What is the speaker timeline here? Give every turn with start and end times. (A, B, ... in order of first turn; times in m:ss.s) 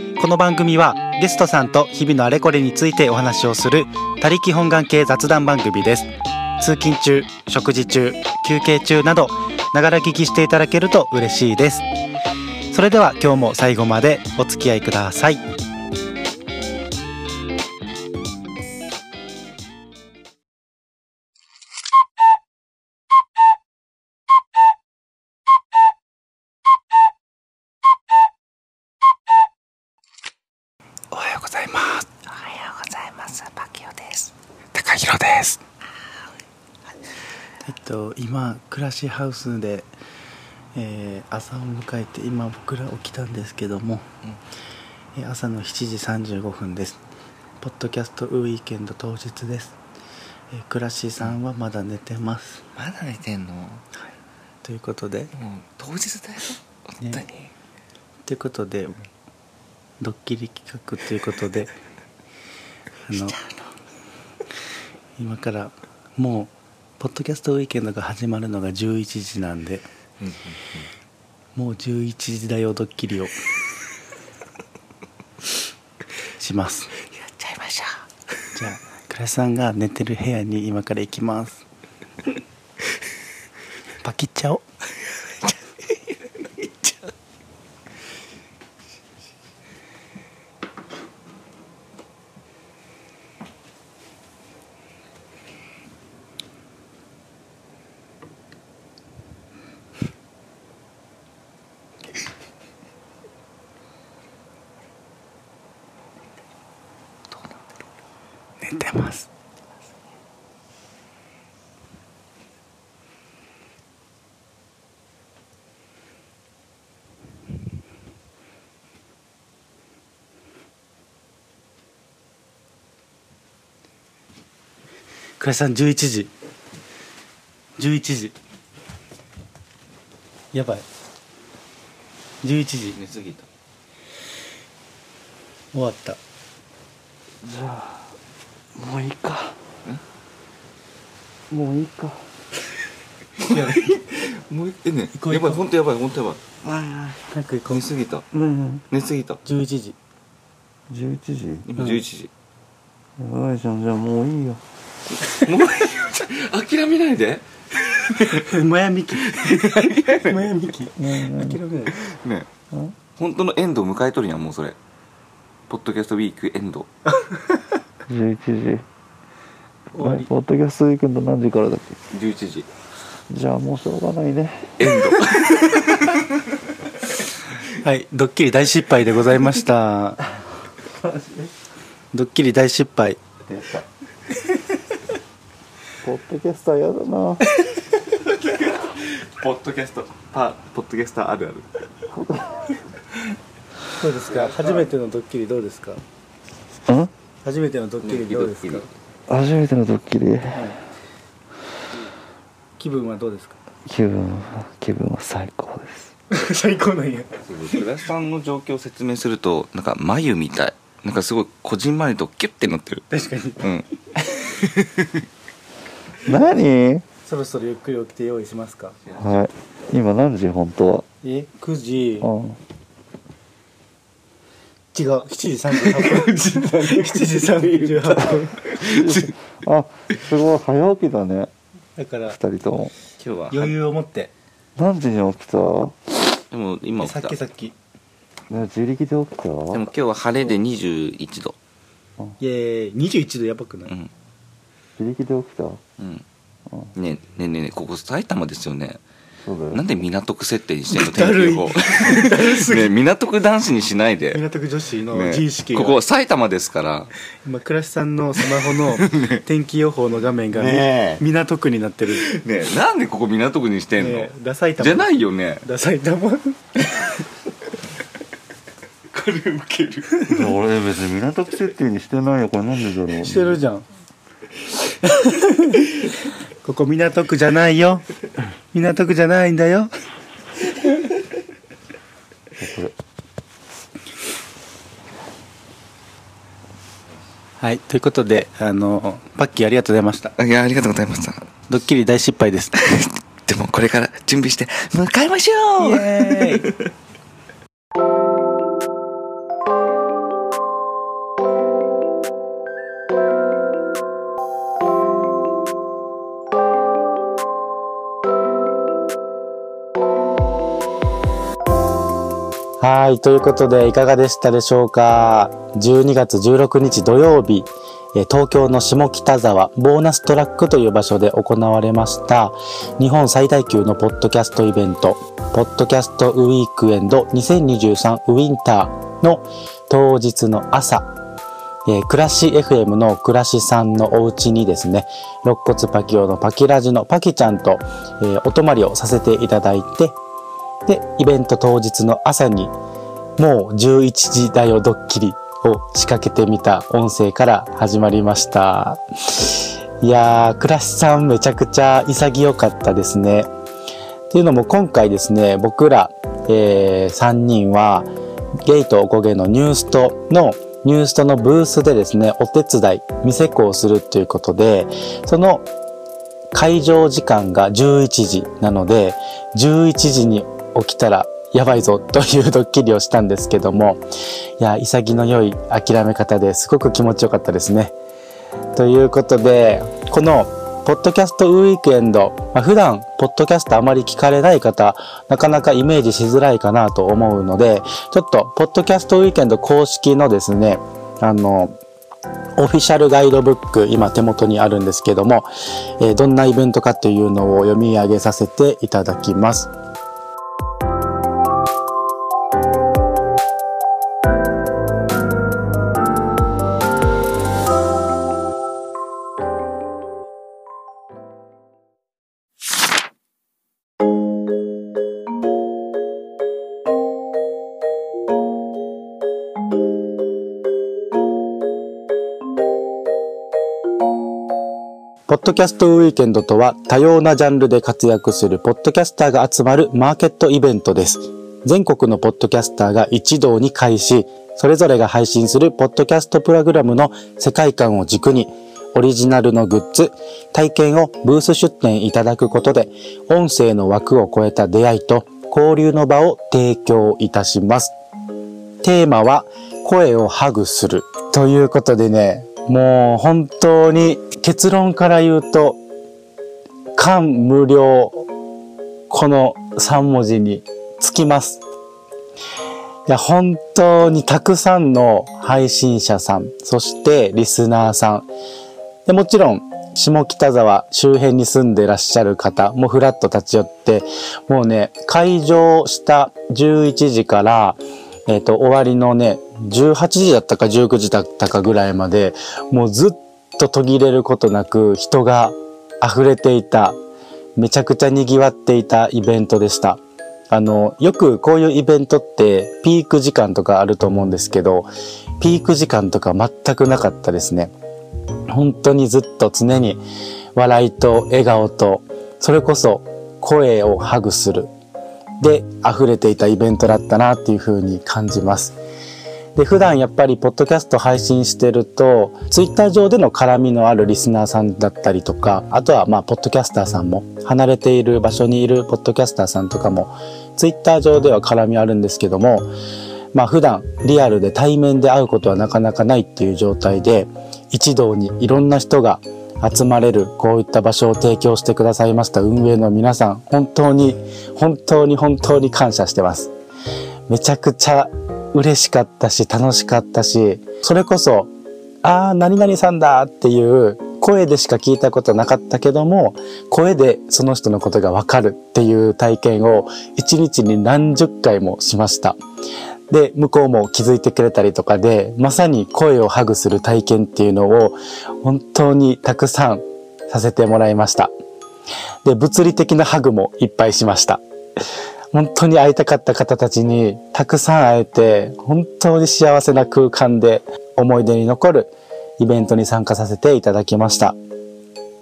0:00.2-0:11.8 A
0:12.7-0:15.4 A
0:31.1-0:35.6 A
0:37.6-0:39.9 A
0:40.7-0:44.0 A
0:45.1-0:47.0 A
0:47.6-0:49.8 A
0:50.5-0:52.6 A
0:52.8-0:53.8 B
0:54.6-0:55.3 A
0:55.4-0:57.5 B
0:58.2-0:59.0 A
1:00.0-1:01.7 A
1:03.0-1:03.4 A
1:05.2-1:09.8 A
1:11.6-1:13.3 A
1:16.4-1:16.9 A
1:17.2-1:18.0 B
1:18.5-1:21.6 A
1:24.0-1:24.6 A
1:48.6-1:49.3 A
2:05.4-2:06.3 A
2:07.8-2:08.3 A
2:10.5-2:10.8 A
2:12.4-2:13.0 A
2:12.9-2:13.4 B
2:15.7-2:16.2 A
2:17.4-2:18.1 C
2:18.8-2:19.6 C
2:21.5-2:22.2 C
2:23.4-2:24.0 A
2:23.4-2:26.4 B
2:25.1-2:25.6 A
2:26.6-2:27.2 C
2:27.3-2:27.8 A
2:27.7-2:28.2 B
2:28.3-2:28.8 C
2:28.9-2:29.4 B
2:29.4-2:30.0 A
2:30.9-2:31.7 C
2:31.6-2:32.3 B
2:31.8-2:32.0 A
2:33.2-2:34.6 C
2:35.2-2:38.4 B
2:38.1-2:42.0 A
2:39.2-2:40.5 B
2:41.0-2:41.6 C
2:42.0-2:42.5 B
2:43.2-2:44.8 B
2:45.7-2:46.9 B
2:48.1-2:48.8 C
2:49.9-2:50.3 A
2:50.0-2:52.0 C
2:52.1-2:52.7 B
2:53.3-2:54.9 C
2:54.8-2:56.2 B
2:57.8-3:00.2 A
3:02.1-3:03.2 A
3:03.5-3:03.8 C
3:06.0-3:07.5 C
3:08.2-3:11.8 B
3:12.1-3:12.7 C
3:14.0-3:16.0 A
3:14.4-3:14.7 B
3:17.4-3:18.9 A
3:18.0-3:18.9 B
3:19.3-3:20.7 C
3:20.5-3:20.8 A
3:22.8-3:23.6 A
3:23.8-3:26.1 C
3:26.3-3:27.8 A
3:27.5-3:33.0 B
3:33.1-3:34.6 A
3:33.6-3:33.9 B
3:36.2-3:37.0 C
3:37.2-3:39.0 A
3:39.2-3:41.1 C
3:41.2-3:42.3 A
3:42.2-3:42.6 C
3:44.9-3:48.8 A
3:48.8-3:51.5 C
3:52.0-3:52.4 A
3:52.3-3:52.9 C
3:53.2-3:53.7 B
3:53.5-3:54.3 A
3:54.8-3:56.2 C
3:56.5-3:57.3 B
3:57.0-3:57.7 A
3:58.5-3:59.8 C
3:59.7-4:01.5 B
4:02.4-4:03.9 A
4:05.0-4:05.8 C
4:06.0-4:06.2 B
4:07.0-4:09.0 B
4:09.4-4:09.8 C
4:09.7-4:14.4 B
4:10.9-4:12.9 A
4:14.3-4:16.0 A
4:15.1-4:17.1 B
4:17.4-4:22.3 A
4:18.8-4:19.4 B
4:20.5-4:21.2 B
4:22.1-4:25.6 B
4:24.0-4:27.1 A
4:29.1-4:30.3 B
4:30.2-4:33.6 C
4:33.2-4:33.8 A
4:35.0-4:38.0 A
4:38.7-4:39.9 A
4:42.6-4:42.9 C
4:47.6-4:50.3 A
4:50.4-4:51.5 B
4:51.7-4:52.9 A
4:53.4-4:56.9 B
4:55.8-4:56.7 A
5:12.8-5:31.1 A
5:31.9-5:40.2 A
5:40.9-5:42.7 A
5:43.4-5:53.5 A
5:54.3-5:58.1 A
5:58.6-6:05.7 A
6:06.5-6:14.0 A
6:14.6-6:17.9 A
6:18.7-6:31.7 A
6:32.6-6:39.7 A
7:05.3-7:27.9 A
7:28.8-7:35.8 A
7:36.9-7:38.3 A
7:39.1-7:41.6 A
7:43.1-7:48.3 A
7:49.0-8:07.0 A
8:07.6-8:10.0 A
8:10.5-8:14.9 A
8:15.4-8:17.7 A
8:18.5-8:20.0 A
8:20.5-8:24.7 A
8:25.4-8:28.8 A
8:29.5-8:42.7 A
8:43.3-8:56.5 A
8:57.3-9:01.5 A
9:02.0-9:12.4 A
9:13.1-9:21.3 A
9:22.2-9:24.4 A
9:25.3-9:34.4 A